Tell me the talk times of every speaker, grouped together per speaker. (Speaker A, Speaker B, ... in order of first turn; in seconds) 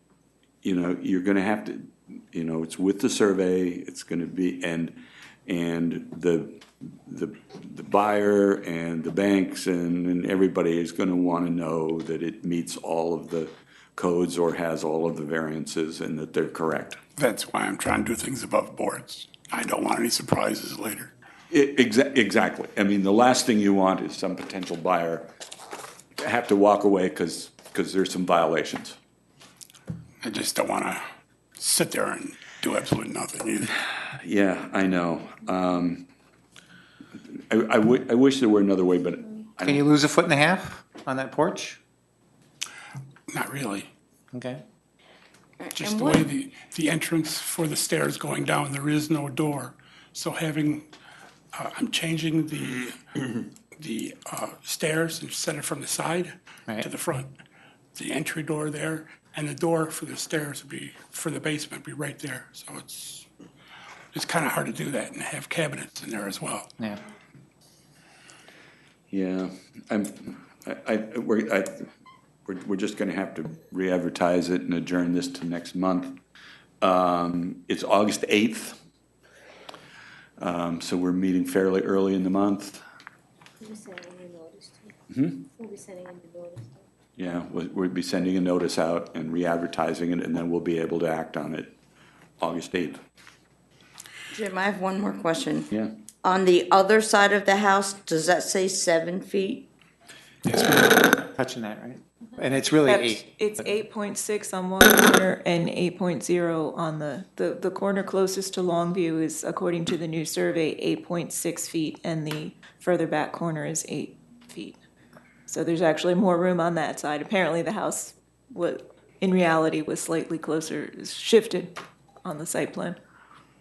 Speaker A: 0.6-17.0, 21.5-25.3, 26.2-28.9, 34.2-36.0, 37.5-39.8, 69.1-71.9, 72.5-76.2, 76.8-78.8, 80.4-82.8, 85.1-85.4, 87.2-91.8, 92.4-93.0
Speaker B: 17.2-21.1, 30.2-31.0, 31.6-33.7, 43.3-43.9, 45.7-50.9, 51.5-53.0, 53.8-57.3, 57.9-63.2, 64.1-66.7, 100.4-101.1
Speaker C: 39.6-41.8, 44.3-44.6, 101.3-103.3
Speaker D: 45.8-46.1, 94.3-95.7, 96.2-99.7
Speaker E: 83.6-84.9, 85.6-86.8
Speaker F: 102.8-114.8, 115.5-123.0